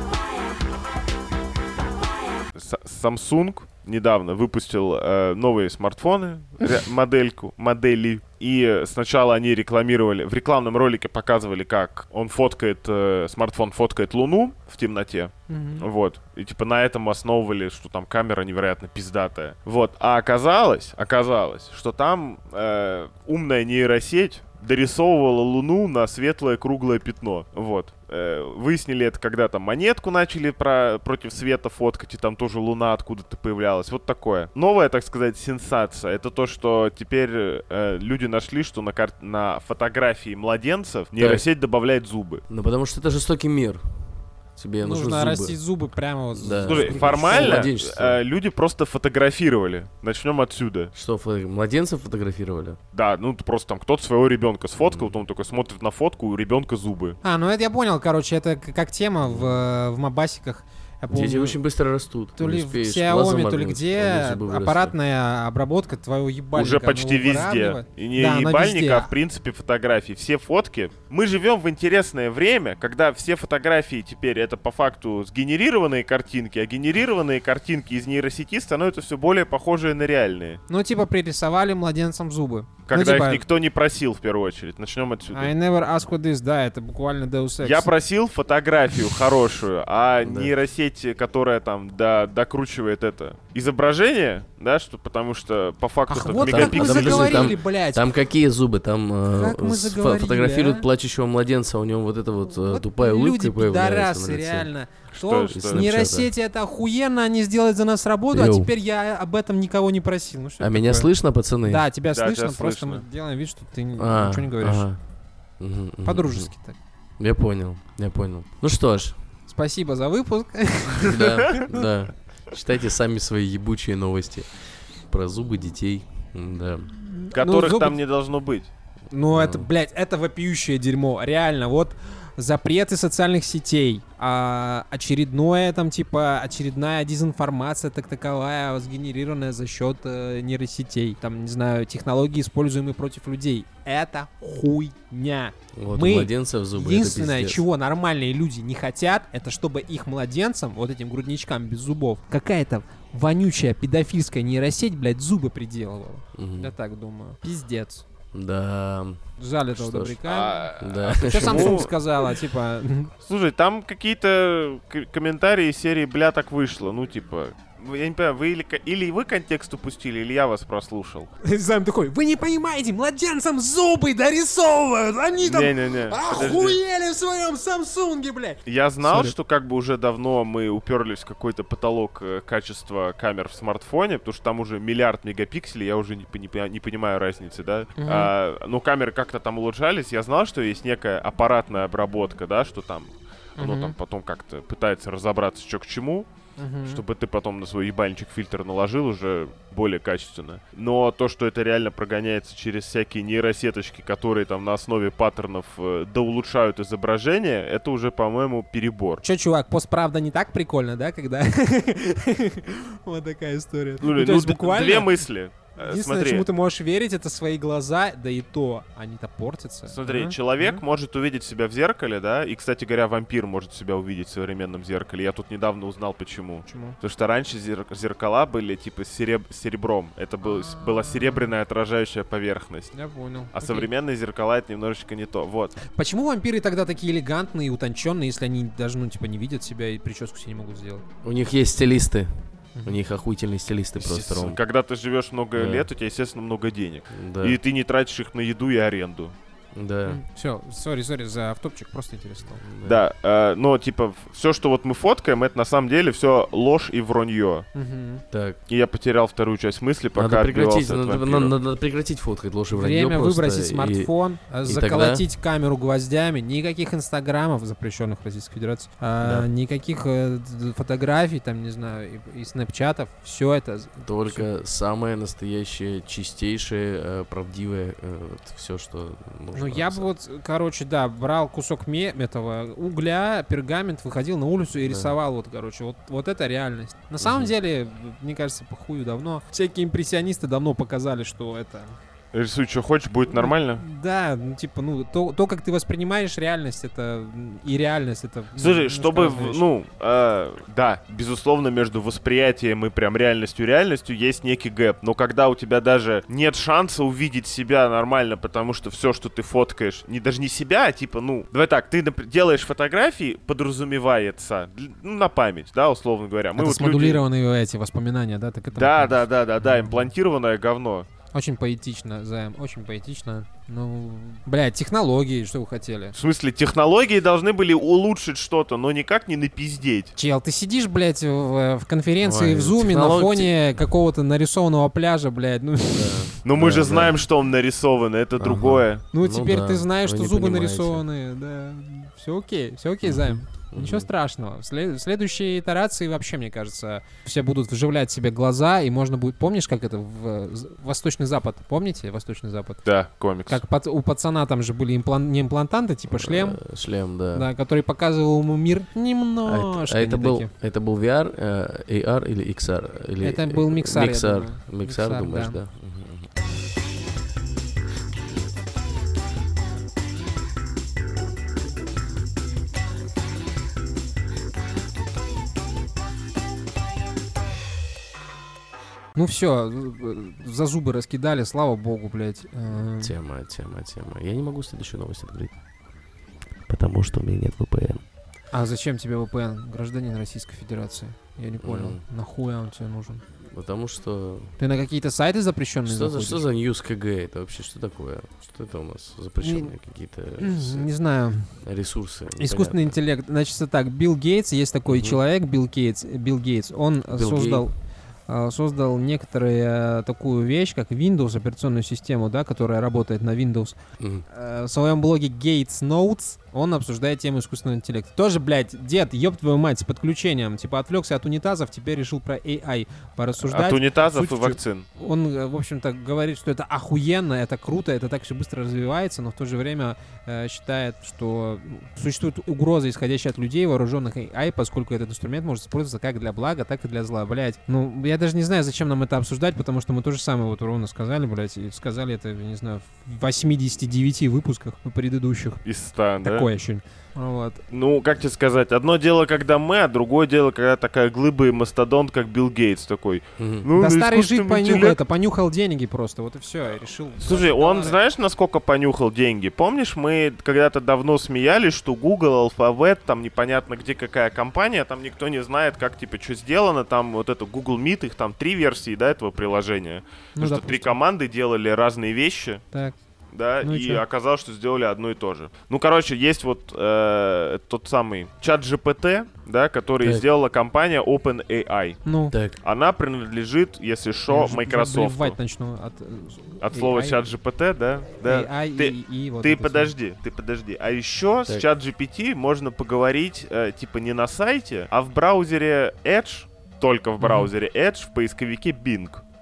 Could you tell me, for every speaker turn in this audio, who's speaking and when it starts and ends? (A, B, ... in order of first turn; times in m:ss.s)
0:02.6-0:42.4 A
0:15.5-0:15.9 B
0:41.2-0:41.4 C
0:42.5-0:45.6 C
0:44.8-0:47.7 B
0:46.3-0:48.2 C
0:46.7-0:50.9 A
0:50.9-0:52.8 C
0:52.9-0:57.2 A
0:54.8-0:55.2 C
0:57.2-1:01.6 B
0:59.2-0:59.6 C
1:01.1-1:05.0 C
1:02.4-1:09.1 B
1:06.6-1:20.6 A
1:20.7-1:23.4 B
1:22.9-1:25.5 A
1:25.3-1:27.9 B
1:27.6-1:37.6 A
1:30.2-1:30.5 C
1:36.1-1:38.1 B
1:36.4-1:44.7 C
1:39.3-1:40.9 B
1:42.7-1:51.1 B
1:45.1-1:45.8 A
1:45.5-1:46.3 C
1:48.3-1:48.7 C
1:50.6-1:51.8 C
1:51.6-1:54.9 B
1:52.1-1:53.0 A
1:54.0-1:55.0 C
1:55.6-1:56.5 C
1:56.0-1:56.8 B
1:57.2-1:59.2 C
1:59.5-2:01.8 B
2:00.9-2:06.9 C
2:07.0-2:08.0 B
2:07.3-2:08.7 A
2:09.1-2:38.0 B
2:09.3-2:09.7 C
2:25.8-2:27.6 C
2:36.4-2:36.7 C
2:38.3-2:40.2 C
2:39.4-2:40.7 B
2:40.3-2:41.9 A
2:40.8-2:41.9 C
2:41.2-2:43.1 B
2:43.2-2:51.3 A
2:51.4-2:59.4 B
2:55.4-2:56.8 A
2:58.7-3:16.3 A
3:08.0-3:08.3 B
3:13.6-3:14.0 B
3:16.6-3:17.0 B
3:16.8-3:29.2 A
3:29.2-3:35.1 B
3:34.0-3:36.5 A
3:35.8-3:40.8 B
3:39.9-3:53.0 A
3:46.7-3:47.0 B
3:50.4-3:51.5 B
3:52.9-3:53.9 B
3:53.5-3:55.8 A
3:55.9-4:01.0 B
4:01.2-4:04.6 C
4:02.8-4:03.0 B
4:04.0-4:09.4 A
4:05.6-4:05.9 C
4:07.1-4:07.6 C
4:09.7-4:10.2 C
4:10.1-4:12.6 B
4:12.6-4:13.0 C
4:12.8-4:17.7 A
4:17.8-4:18.2 B
4:18.3-4:18.6 C
4:18.7-4:21.5 A
4:20.2-4:24.1 C
4:22.7-4:34.4 B
4:24.6-4:25.2 C
4:29.2-4:29.5 C
4:34.0-4:40.1 C
4:39.6-4:52.0 B
4:44.9-4:45.1 C
4:47.2-4:47.5 C
4:52.3-4:53.8 A
4:53.4-4:59.6 B
4:58.6-5:17.2 A
5:16.6-5:20.1 B
5:18.8-5:21.1 A
5:21.3-5:26.2 B
5:26.2-5:30.2 A
5:30.2-5:36.4 B
5:32.2-5:33.6 C
5:35.9-5:37.2 C
5:36.4-5:39.0 A
5:38.4-5:41.0 C
5:39.1-5:52.8 B
5:43.0-5:44.1 C
5:52.9-5:53.6 A
5:53.5-5:56.6 B
5:56.1-5:57.5 C
5:57.3-6:00.5 B
5:59.4-6:06.3 C
6:03.2-6:05.6 B
6:19.2-6:23.2 B
6:22.7-6:25.6 C
6:26.7-6:28.0 C
6:28.5-6:33.2 B
6:31.6-6:32.0 C
6:33.4-6:34.6 C
6:34.6-6:36.4 B
6:35.8-6:40.9 C
6:39.4-6:39.7 B
6:40.4-6:41.5 B
6:41.6-6:43.0 C
6:42.4-6:47.7 B
6:44.9-6:45.2 C
6:47.1-6:47.7 C
6:48.3-6:53.8 B
6:54.0-6:54.2 C
6:54.3-7:25.6 B
7:03.4-7:04.9 A
7:25.6-7:26.5 A
7:26.2-7:27.6 B
7:27.7-7:35.0 A
7:33.4-7:33.7 C
7:33.8-7:38.0 B
7:37.2-7:52.6 A
7:50.4-7:51.0 B
7:53.3-8:02.0 A
7:53.6-7:54.0 B
8:02.0-8:02.4 B
8:02.3-8:02.6 C
8:02.6-8:05.4 A
8:04.3-8:07.2 B
8:06.6-8:19.2 A
8:08.2-8:09.9 B
8:17.2-8:17.5 B